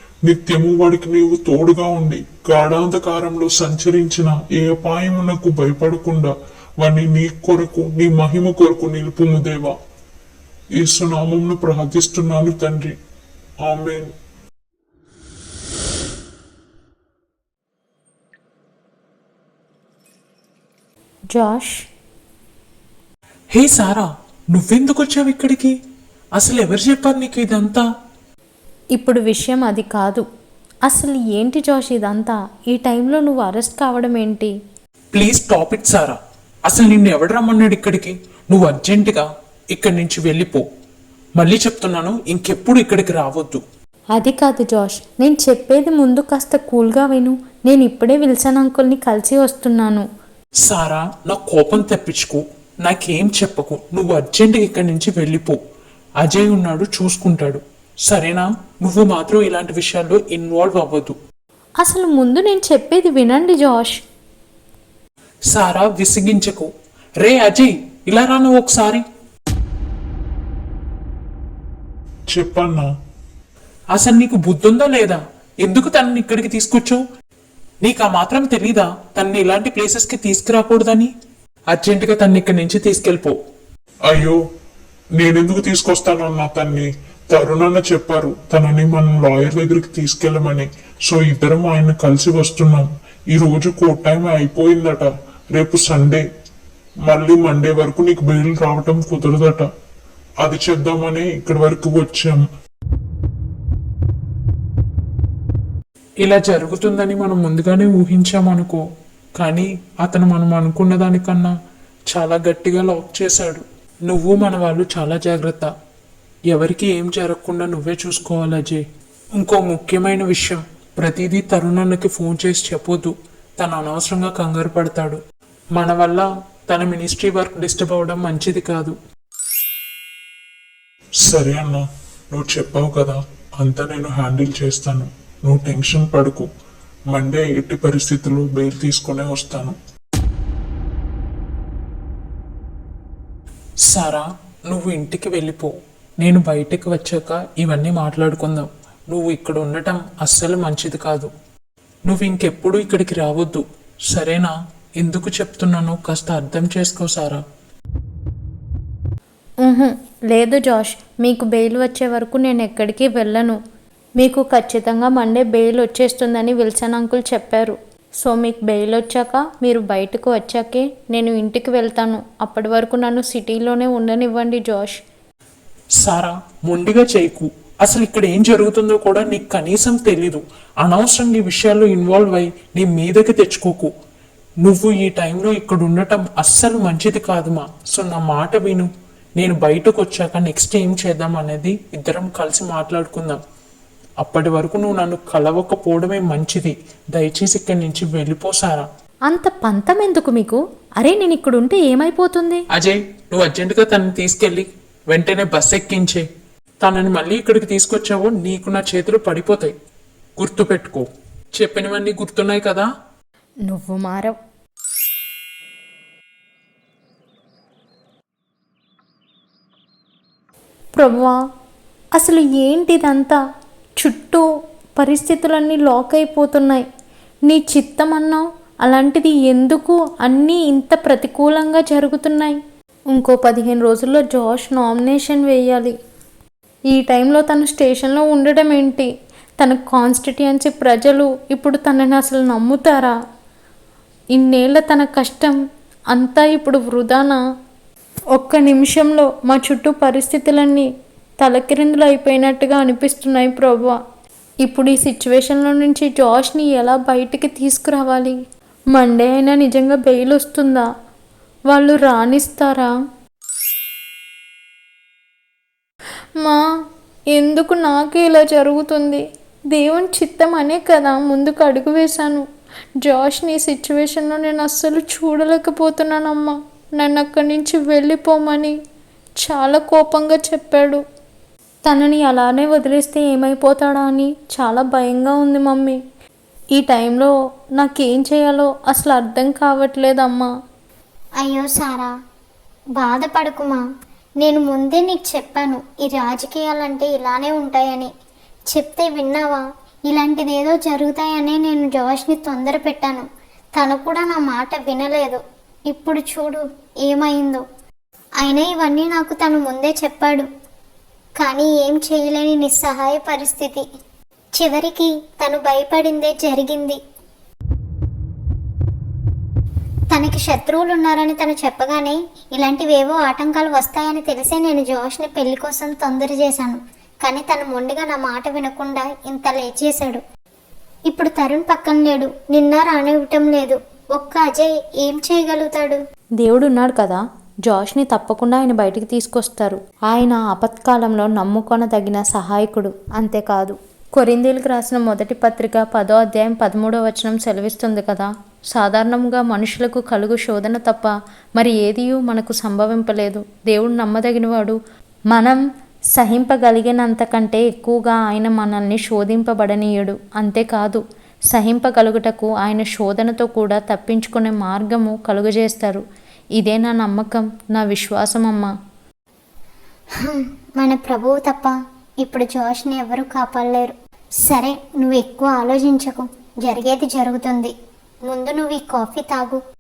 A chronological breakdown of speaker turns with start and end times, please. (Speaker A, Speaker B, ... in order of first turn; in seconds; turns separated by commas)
Speaker A: 0.2-9.7, Speaker A: 10.8-12.9, Speaker A: 13.6-14.1, Speaker B: 21.3-21.8, Speaker C: 23.5-25.7, Speaker C: 26.4-27.8, Speaker B: 28.9-30.2, Speaker B: 30.9-34.5, Speaker C: 35.1-40.6, Speaker C: 41.4-43.6, Speaker B: 44.1-50.1, Speaker C: 50.6-55.6, Speaker C: 56.2-61.2, Speaker B: 61.8-64.0, Speaker C: 65.5-66.7, Speaker C: 67.2-69.0, Speaker A: 72.3-72.9, Speaker C: 73.9-77.0, Speaker C: 77.8-81.1, Speaker C: 81.7-83.3, Speaker A: 84.1-84.4, Speaker A: 85.2-96.2, Speaker A: 97.1-99.7, Speaker A: 100.4-102.4, Speaker C: 106.2-108.8, Speaker C: 109.4-111.5, Speaker C: 112.1-115.7, Speaker C: 116.5-118.8, Speaker C: 119.4-125.2, Speaker C: 125.8-129.0, Speaker A: 131.2-136.5, Speaker A: 137.1-139.8, Speaker C: 143.9-151.3, Speaker C: 152.1-157.4, Speaker B: 159.6-163.6, Speaker B: 164.2-175.0, Speaker C: 176.0-183.9, Speaker C: 184.6-193.4, Speaker C: 194.2-198.9, Speaker B: 199.3-202.6, Speaker C: 202.7-206.3, Speaker C: 206.8-209.7, Speaker C: 210.4-212.9, Speaker B: 213.7-214.4, Speaker B: 221.0-221.3, Speaker B: 222.2-223.4, Speaker B: 224.0-224.4, Speaker B: 225.0-226.9, Speaker B: 227.5-232.6, Speaker B: 233.1-235.9, Speaker B: 236.9-239.1, Speaker B: 239.6-243.2, Speaker B: 244.3-245.6, Speaker B: 246.1-247.4, Speaker B: 248.3-250.9, Speaker B: 251.4-254.0, Speaker B: 254.6-258.4, Speaker B: 258.9-260.9, Speaker B: 261.7-262.9, Speaker B: 267.3-272.5, Speaker B: 273.0-278.8, Speaker B: 279.4-281.0, Speaker B: 281.8-286.0, Speaker B: 286.7-290.5, Speaker D: 291.4-292.1, Speaker D: 293.0-293.8, Speaker D: 294.4-298.1, Speaker D: 298.7-307.6, Speaker D: 308.4-310.5, Speaker D: 311.4-313.9, Speaker D: 314.6-317.0, Speaker D: 320.1-330.2, Speaker D: 331.1-336.0, Speaker B: 336.4-354.8, Speaker B: 355.3-355.6, Speaker B: 356.1-366.0, Speaker B: 366.6-368.7, Speaker D: 370.2-377.7, Speaker D: 378.3-379.6